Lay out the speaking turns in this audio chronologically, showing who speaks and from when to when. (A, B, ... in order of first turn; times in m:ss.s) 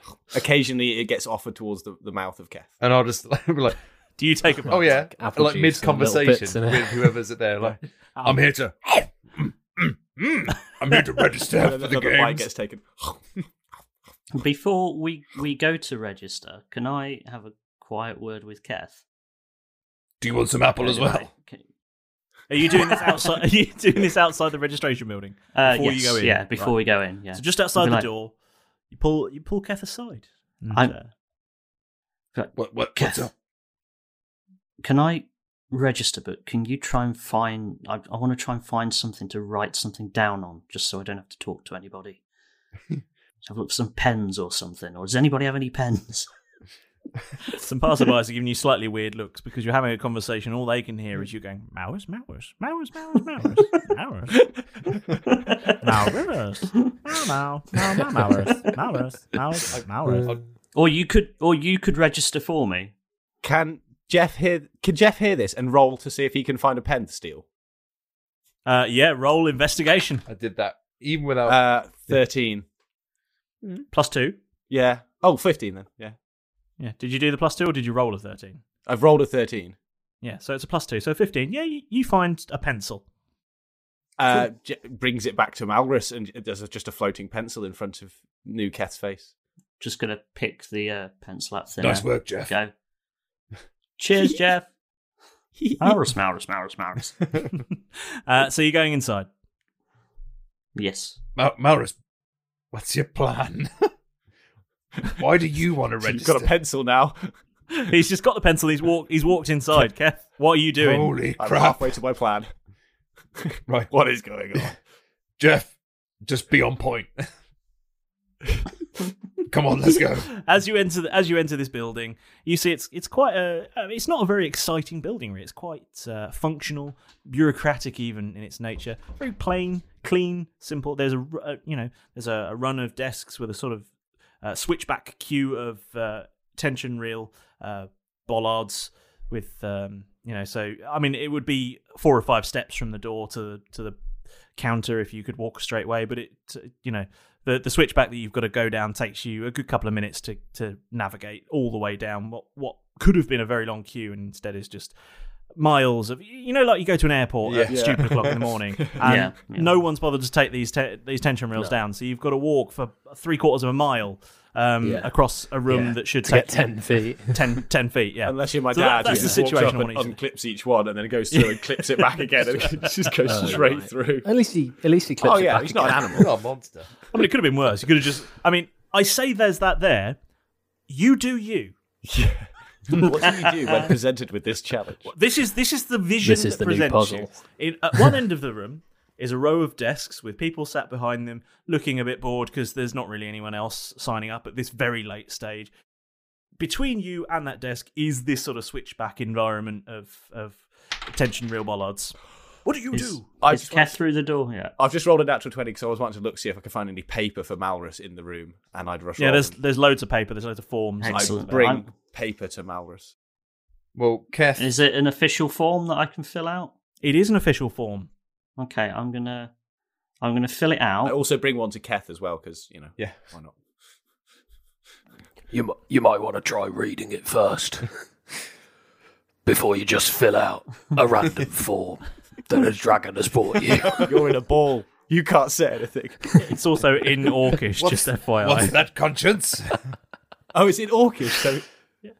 0:00.3-0:02.7 A
0:02.8-0:03.8 B
0:04.2-0:04.9 C
0:04.7-0:12.5 B
0:04.7-0:07.2 D
0:07.6-0:08.4 C
0:11.6-0:13.2 A
0:14.3-0:19.0 E
0:20.2-0:21.3 B
0:20.8-0:21.6 E
0:22.5-0:26.8 C
0:25.5-0:28.1 E
0:27.3-0:28.3 C
0:28.9-0:31.0 C
0:30.7-0:31.0 E
0:32.3-0:33.3 E
0:32.5-0:33.3 B
0:34.8-0:42.2 E
0:43.4-0:46.3 E
0:47.6-0:54.3 C
0:55.4-0:55.7 E
0:55.8-1:00.3 C
1:00.0-1:00.3 D
1:00.7-1:02.9 E
1:03.4-1:07.4 A
1:08.6-1:10.2 C
1:10.3-1:12.2 B
1:11.4-1:12.6 A
1:13.9-1:14.4 C
1:14.7-1:16.1 A
1:16.8-1:18.6 C
1:18.8-1:19.8 A
1:20.2-1:23.0 C
1:24.2-1:29.3 A
1:29.8-1:32.7 E
1:31.8-1:32.6 B
1:34.0-1:34.7 E
1:35.6-1:35.9 A
1:35.8-1:37.1 E
1:38.2-1:39.3 C
1:40.7-1:41.2 E
1:41.4-1:42.0 B
1:42.7-1:43.9 B
1:45.1-1:46.5 B
1:46.0-1:47.3 A
1:47.7-1:51.2 C
1:50.8-1:51.9 B
1:51.4-1:52.5 A
1:53.4-1:54.7 A
1:53.7-1:53.9 B
1:55.4-1:55.7 B
1:56.2-1:57.2 B
1:59.5-2:00.3 B
2:00.3-2:13.9 C
2:14.4-2:24.0 C
2:24.6-2:34.9 C
2:35.6-2:50.2 C
2:37.4-2:38.3 B
2:37.7-2:39.2 A
2:39.0-2:39.8 E
2:44.8-2:45.1 D
2:45.7-2:47.4 D
2:48.2-2:54.2 A
2:49.0-2:49.5 D
2:53.2-2:56.2 D
2:55.2-2:56.3 A
2:56.2-2:56.9 B
2:57.1-3:00.2 C
3:00.9-3:01.7 C
3:02.0-3:05.1 A
3:05.0-3:15.7 C
3:06.2-3:07.3 D
3:16.6-3:23.4 C
3:22.9-3:24.7 E
3:23.3-3:24.0 A
3:24.8-3:29.5 A
3:29.2-3:31.6 C
3:31.0-3:31.9 E
3:31.1-3:33.1 A
3:33.9-3:34.7 B
3:34.6-3:36.7 E
3:37.0-3:38.1 C
3:38.6-3:39.5 E
3:40.2-3:41.2 E
3:41.0-3:43.5 A
3:45.5-3:47.9 F
3:49.4-3:54.1 F
3:54.0-3:56.5 A
3:56.4-3:58.7 C
3:57.8-3:59.7 B
4:00.5-4:01.6 A